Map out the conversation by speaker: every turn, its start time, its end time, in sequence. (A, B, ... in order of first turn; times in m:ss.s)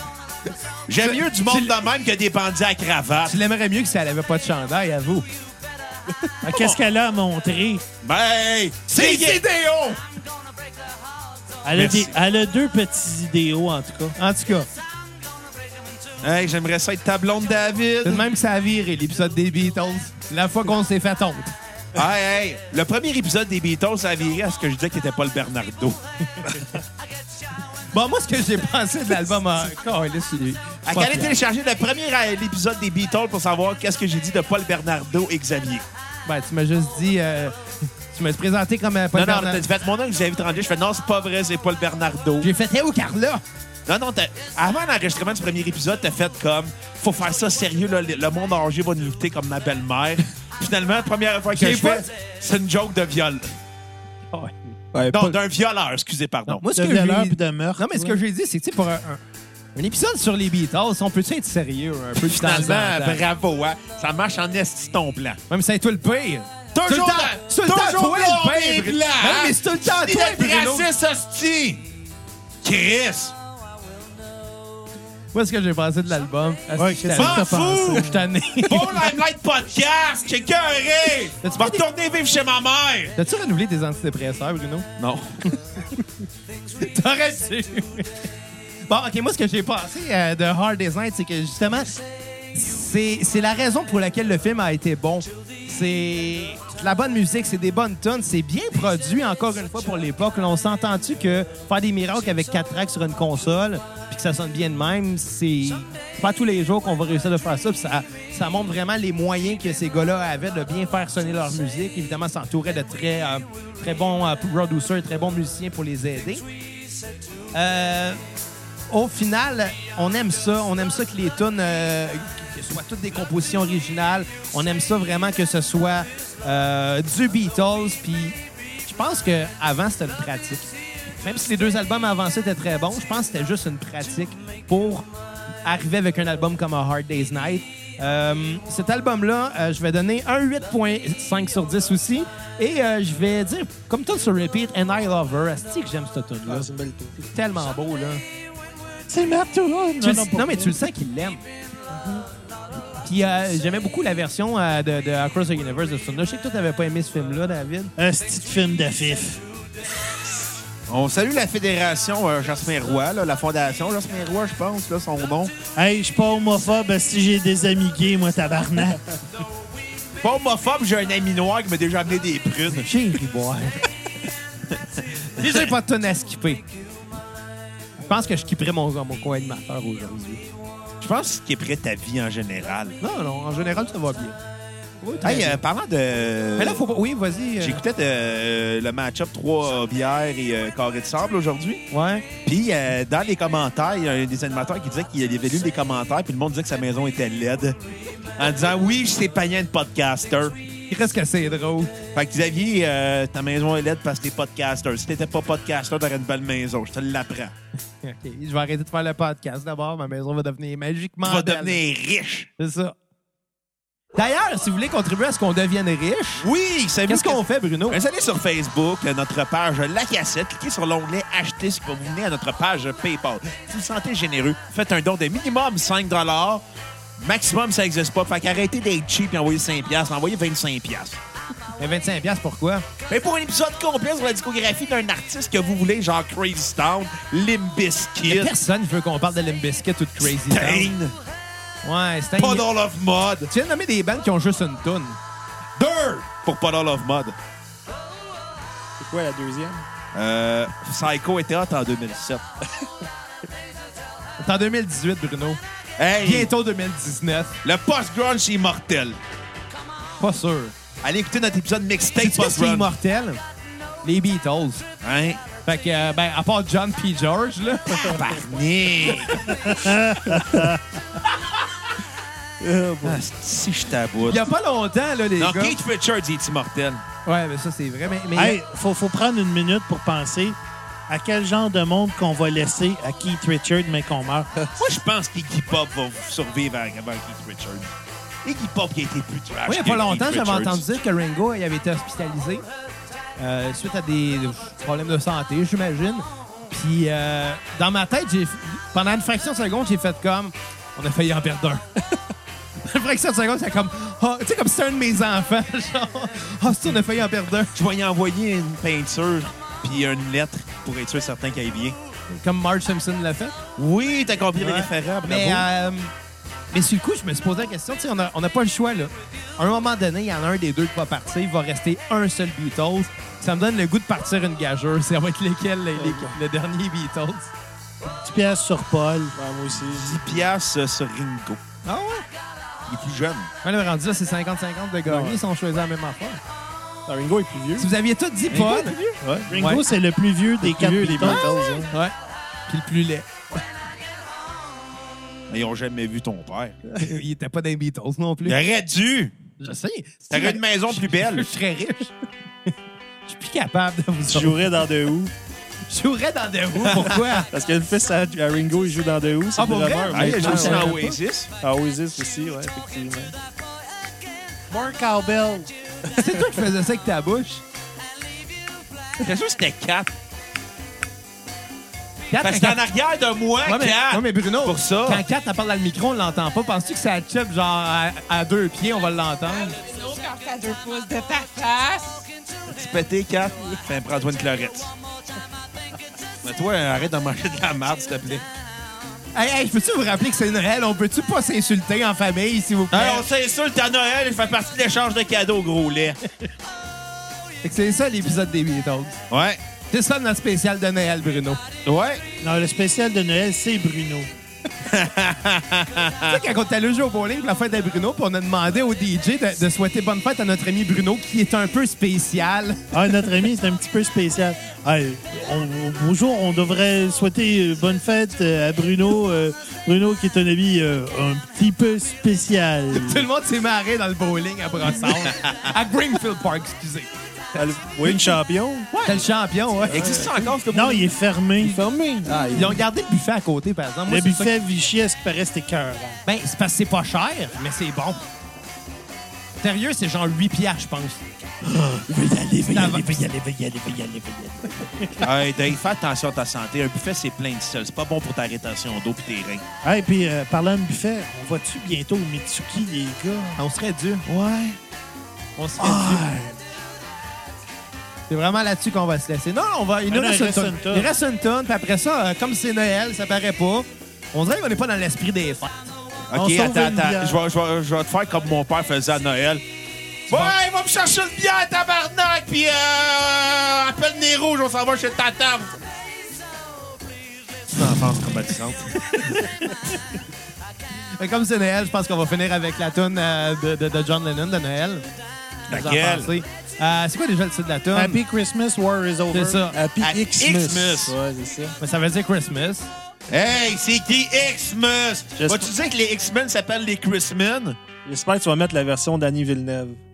0:00.9-0:03.4 A
0:01.0-0:01.7 B
0:03.3-0:05.3 B
0:06.4-0:07.8 C
0:06.5-0:06.8 A
0:08.0-0:10.0 A
0:08.9-0:09.4 B
0:11.6-0:14.2 C
0:11.8-0:12.1 A
0:14.2-0:14.7 B
0:16.2-0:18.3 A
0:18.0-0:21.5 B
0:22.0-0:26.0 A
0:27.9-0:31.4 B
0:30.9-0:35.9 A
0:36.3-0:37.6 B
0:38.1-0:39.6 B
0:39.2-0:42.5 A
0:42.4-0:43.4 B
0:43.9-0:53.5 A
0:51.6-0:52.1 B
0:54.3-0:54.8 B
0:54.9-0:55.4 D
0:55.1-0:56.6 A
0:56.5-0:59.2 B
0:56.7-0:58.2 C
0:59.8-1:03.2 B
1:02.2-1:05.4 A
1:05.5-1:10.9 B
1:06.7-1:11.8 A
1:12.6-1:13.3 A
1:15.3-1:19.0 B
1:16.8-1:18.2 C
1:17.1-1:18.1 A
1:18.6-1:23.2 A
1:21.4-1:21.8 B
1:23.2-1:24.9 B
1:25.0-1:25.5 A
1:26.8-1:28.2 B
1:28.9-1:31.9 B
1:32.5-1:56.4 B
1:57.5-1:58.2 B
1:58.9-2:10.7 B
2:11.2-2:15.1 B
2:15.6-2:28.2 B
2:26.5-2:27.2 D
2:29.1-2:30.8 C
2:30.0-2:31.4 B
2:32.0-2:32.2 D
2:32.9-2:37.9 B
2:38.0-2:39.4 C
2:40.9-2:45.5 A
2:45.8-2:49.0 C
2:50.2-2:52.9 A
2:52.7-2:53.8 B
2:54.8-2:55.7 A
2:55.4-2:56.6 B
2:58.0-3:00.4 B
3:01.0-3:03.0 A
3:03.0-3:04.4 B
3:05.0-3:05.6 B
3:05.2-3:06.8 A
3:06.6-3:07.8 B
3:07.6-3:11.8 A
3:11.9-3:12.3 B
3:12.4-3:17.8 A
3:18.4-3:20.6 A
3:20.9-3:21.9 B
3:22.2-3:27.5 A
3:28.0-3:31.8 B
3:31.2-3:32.5 A
3:32.6-3:33.0 B
3:34.2-3:36.5 B
3:36.4-3:46.6 A
3:37.1-3:38.0 B
3:47.2-3:51.2 A
3:51.8-3:52.9 B
3:53.1-3:58.5 A
3:58.3-4:00.9 B
4:00.2-4:01.1 A
4:01.8-4:02.7 B
4:02.4-4:03.5 A
4:03.5-4:05.2 B
4:05.8-4:07.4 A
4:09.0-4:09.9 D
4:10.1-4:12.4 A
4:14.4-4:15.6 B
4:16.0-4:16.5 A
4:16.2-4:17.6 B
4:17.6-4:19.2 A
4:20.2-4:20.8 B
4:21.0-4:22.9 A
4:22.2-4:23.4 B
4:24.0-4:24.8 B
4:25.0-4:25.4 A
4:25.6-4:28.4 B
4:28.0-4:29.5 A
4:29.5-4:30.8 C
4:32.6-4:33.2 D
4:33.0-4:34.4 A
4:34.3-4:35.8 B
4:35.4-4:37.0 A
4:37.2-4:38.6 B
4:38.4-4:40.6 C
4:41.1-4:44.5 C
4:44.8-4:47.9 A
4:48.4-4:50.8 A
4:49.7-4:52.6 B
4:53.4-5:01.8 B
5:02.8-5:07.7 B
5:07.7-5:12.0 A
5:12.3-5:13.6 B
5:13.8-5:15.7 A
5:14.6-5:16.1 B
5:16.7-5:27.5 B
5:26.0-5:26.4 D
5:28.0-5:29.4 C
5:29.4-5:30.4 D
5:29.8-5:31.6 A
5:31.8-5:32.2 B
5:32.9-5:33.5 A
5:33.6-5:36.4 B
5:35.1-5:35.4 D
5:37.1-5:37.9 D
5:37.8-5:39.8 B
5:38.6-5:39.5 D
5:39.5-5:41.7 C
5:40.6-5:41.9 D
5:42.7-5:43.3 B
5:45.5-5:46.8 A
5:47.0-5:48.6 B
5:48.4-5:49.3 A
5:49.6-5:52.1 B
5:50.3-5:51.5 A
5:53.3-5:54.6 B
5:54.3-5:55.3 D
5:55.9-5:57.5 B
5:57.5-6:01.0 D
5:59.6-6:01.2 B
6:00.1-6:01.5 A
6:01.6-6:03.4 D
6:04.7-6:05.7 C
6:06.2-6:07.6 B
6:09.2-6:10.1 A
6:12.3-6:12.8 B
6:12.4-6:15.2 A
6:13.6-6:19.8 B
6:19.5-6:22.2 E
6:22.7-6:24.9 A
6:26.4-6:28.5 A
6:29.3-6:33.2 B
6:32.9-6:36.2 A
6:37.6-6:39.2 B
6:39.3-6:39.6 A
6:39.9-6:41.6 B
6:41.8-6:42.2 A
6:42.4-6:44.3 C
6:44.8-6:46.4 A
6:46.3-6:52.8 B
6:52.9-7:03.3 C
7:02.9-7:07.1 B
7:05.2-7:05.6 A
7:07.6-7:09.2 D
7:09.0-7:10.3 B
7:09.9-7:10.4 D
7:09.9-7:11.1 A
7:10.7-7:12.5 C
7:11.6-7:12.8 D
7:12.5-7:14.5 B
7:14.1-7:16.2 C
7:16.2-7:18.2 B
7:19.6-7:21.3 B
7:21.8-7:23.0 A
7:22.1-7:25.3 C
7:22.7-7:23.2 B
7:25.2-7:29.6 A
7:29.8-7:33.6 C
7:33.6-7:34.2 B
7:34.3-7:34.8 A
7:35.6-7:36.3 B
7:35.8-7:36.6 A
7:38.3-7:45.9 B
7:40.1-7:41.1 C
7:46.3-7:49.6 A
7:46.3-7:47.4 C
7:50.3-7:55.7 A
7:50.3-7:50.6 B
7:57.7-7:59.4 A
7:59.1-7:59.9 B
8:01.2-8:05.0 B
8:05.7-8:06.3 A
8:05.7-8:08.2 B
8:07.9-8:09.7 C
8:09.3-8:09.8 B
8:09.7-8:11.8 D
8:10.0-8:11.2 A
8:11.8-8:12.9 B
8:13.3-8:17.8 A
8:15.4-8:15.7 D
8:18.0-8:20.0 D